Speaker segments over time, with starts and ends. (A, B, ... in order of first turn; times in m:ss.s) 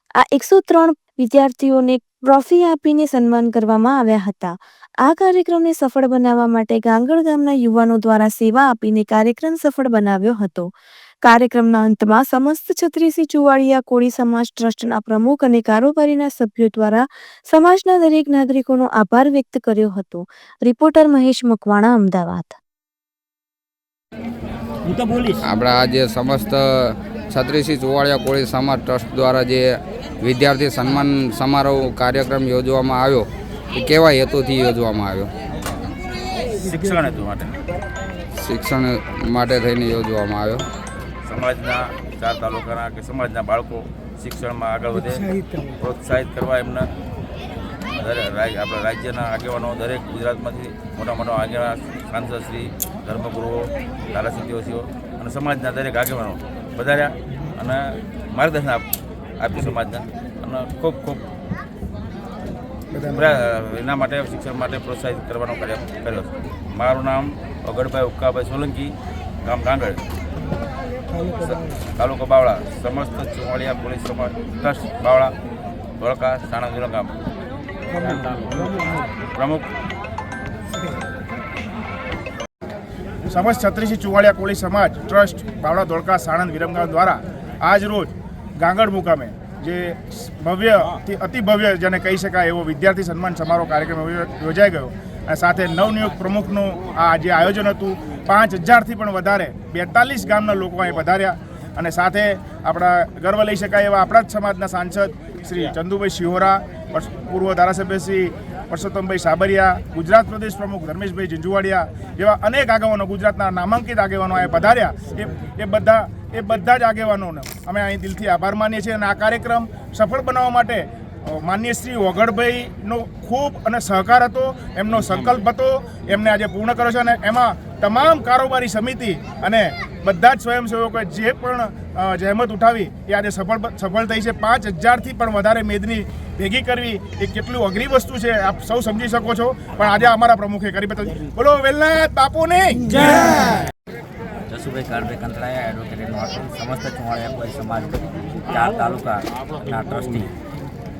0:00.2-0:10.7 A
0:11.2-0:22.6 A
0:24.8-0:25.4 B
0:25.4-0:35.3 C
0:36.5-0:37.6 D
0:38.4-0:40.6 C
0:41.2-0:46.9 D
0:48.0-0:58.9 D
0:59.4-1:01.2 D
1:03.0-1:10.0 D
1:11.2-1:15.4 D
1:16.0-1:17.2 D
1:18.0-1:19.7 D
1:23.3-2:23.0 E
2:24.5-2:30.3 B